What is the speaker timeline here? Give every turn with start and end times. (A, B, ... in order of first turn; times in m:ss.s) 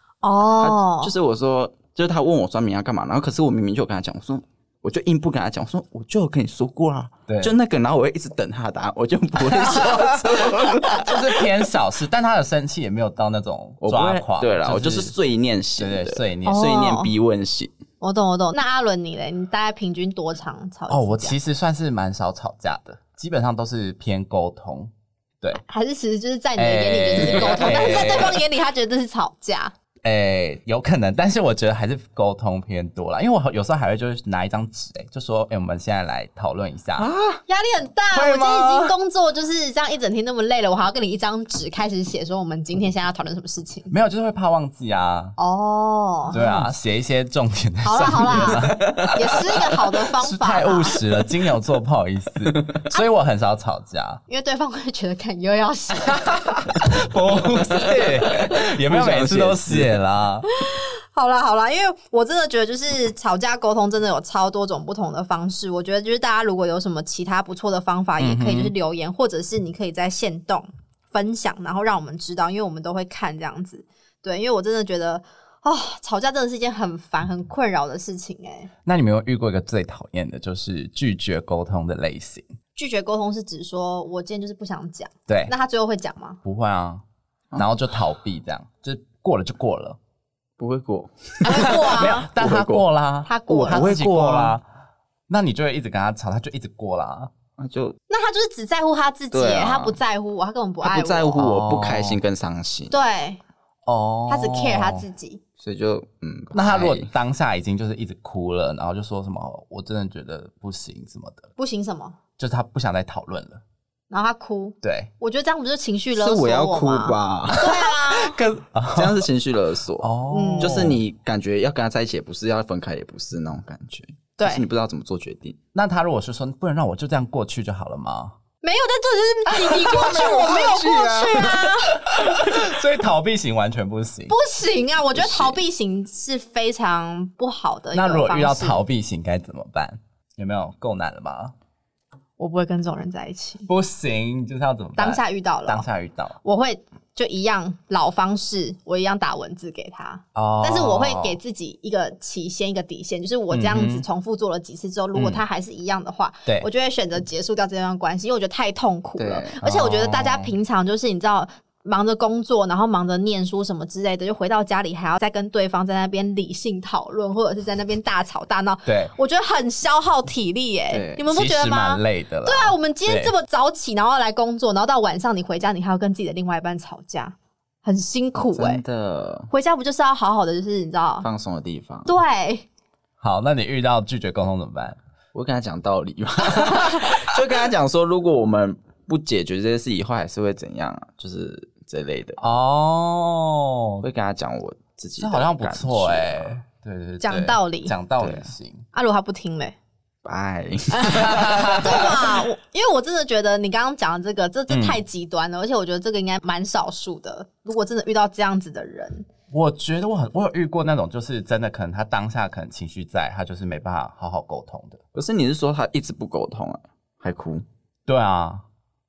0:00.2-0:01.1 A
0:00.6-0:11.5 B
0:07.3-0:07.5 C
0:09.4-0:15.1 C
0:13.8-0:17.7 B
0:15.8-0:16.7 C
0:16.4-0:17.1 A
0:18.0-0:21.4 A
0:20.9-0:25.6 C
0:25.5-0:29.7 A
0:26.6-0:28.4 C
0:30.0-0:37.1 C
0:37.0-0:37.4 B
0:37.5-0:43.9 A
0:38.1-0:39.0 C
0:43.9-0:45.4 C
0:45.4-0:46.4 A
0:46.3-0:49.4 C
0:46.3-0:46.7 B
0:47.8-0:51.0 A
0:48.2-0:49.4 B
0:50.2-0:54.2 C
0:54.3-0:56.8 A
0:56.0-1:00.4 C
0:57.7-1:00.0 B
1:00.5-1:18.7 A
1:08.2-1:08.7 C
1:18.8-1:22.4 C
1:22.8-1:26.4 A
1:25.3-1:25.5 C
1:26.4-1:27.0 C
1:27.6-1:30.0 C
1:30.6-1:32.8 B
1:31.4-1:32.3 A
1:31.5-1:34.6 C
1:33.2-1:34.0 A
1:33.7-1:34.6 B
1:35.3-1:37.3 C
1:37.6-1:38.0 B
1:38.1-1:41.4 A
1:39.3-1:40.0 B
1:40.8-1:42.9 B
1:41.4-1:42.2 C
1:42.9-1:43.4 A
1:43.8-1:45.0 C
1:44.3-1:45.4 A
1:45.6-1:47.1 B
1:46.5-1:51.5 C
1:51.6-1:52.2 A
1:52.4-1:53.6 C
1:54.1-1:58.4 A
1:54.8-1:55.1 C
1:56.1-1:57.8 B
1:57.5-1:59.2 C
1:58.9-2:05.6 B
2:00.0-2:01.0 C
2:00.3-2:00.7 A
2:04.4-2:04.6 A
2:05.7-2:08.4 C
2:08.6-2:12.2 A
2:09.5-2:11.7 B
2:12.0-2:14.3 C
2:14.3-2:18.8 A
2:15.1-2:15.6 C
2:17.9-2:21.5 C
2:22.4-2:23.7 A
2:23.7-2:26.4 C
2:25.0-2:25.8 A
2:26.4-2:58.8 A
2:30.3-2:31.4 C
2:33.5-2:34.0 C
2:35.1-2:35.4 C
2:39.2-2:39.6 B
2:39.6-2:40.5 C
2:48.8-2:49.1 C
2:50.9-2:51.2 B
2:51.3-2:53.3 C
2:58.5-2:59.5 B
2:59.5-3:01.3 A
3:01.2-3:02.2 B
3:02.0-3:02.6 A
3:03.2-3:05.0 C
3:05.3-3:12.4 B
3:06.6-3:06.9 C
3:12.4-3:14.0 C
3:14.0-3:16.6 B
3:15.2-3:18.8 C
3:17.2-3:17.9 A
3:18.2-3:18.5 B
3:18.9-3:19.7 A
3:20.2-3:22.4 B
3:20.9-3:29.3 A
3:21.1-3:22.1 C
3:24.7-3:25.0 C
3:29.5-3:35.0 C
3:35.1-3:37.6 B
3:38.1-3:38.6 C